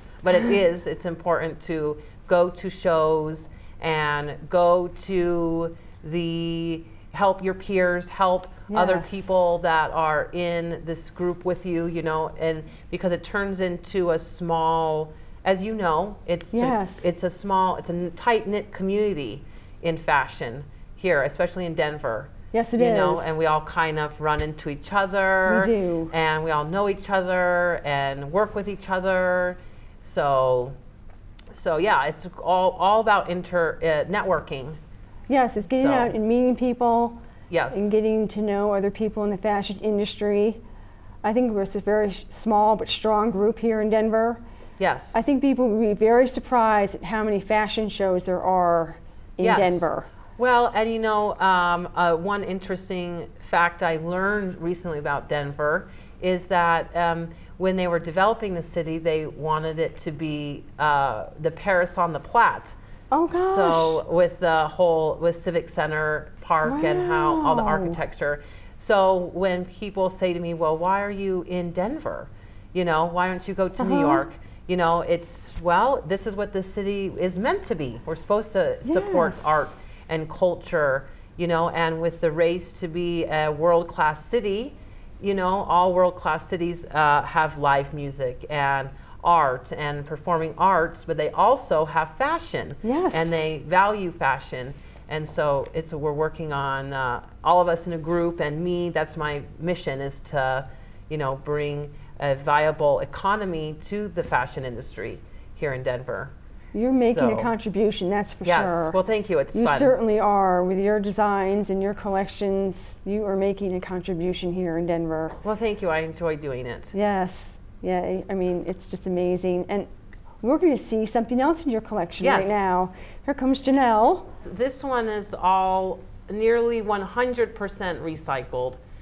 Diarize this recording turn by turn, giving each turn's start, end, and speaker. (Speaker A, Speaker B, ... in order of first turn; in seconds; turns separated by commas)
Speaker A: 0.2-30.8, Speaker B: 8.7-9.2, Speaker B: 16.5-17.1, Speaker B: 22.5-23.3, Speaker B: 25.4-26.1, Speaker A: 31.5-34.8, Speaker B: 35.3-37.2, Speaker A: 35.7-36.1, Speaker A: 37.5-37.9, Speaker B: 37.7-40.6, Speaker B: 41.2-44.4, Speaker A: 44.8-45.2, Speaker B: 45.1-50.1, Speaker A: 49.4-62.8, Speaker B: 63.1-64.0, Speaker A: 63.3-106.3, Speaker B: 66.6-68.0, Speaker B: 73.8-74.2, Speaker B: 78.8-79.7, Speaker B: 92.8-93.4, Speaker B: 106.7-109.0, Speaker A: 107.0-107.5, Speaker A: 108.4-110.0, Speaker B: 109.5-115.4, Speaker A: 115.4-116.9, Speaker B: 116.9-119.9, Speaker B: 120.4-124.4, Speaker A: 122.2-122.6, Speaker A: 124.4-128.8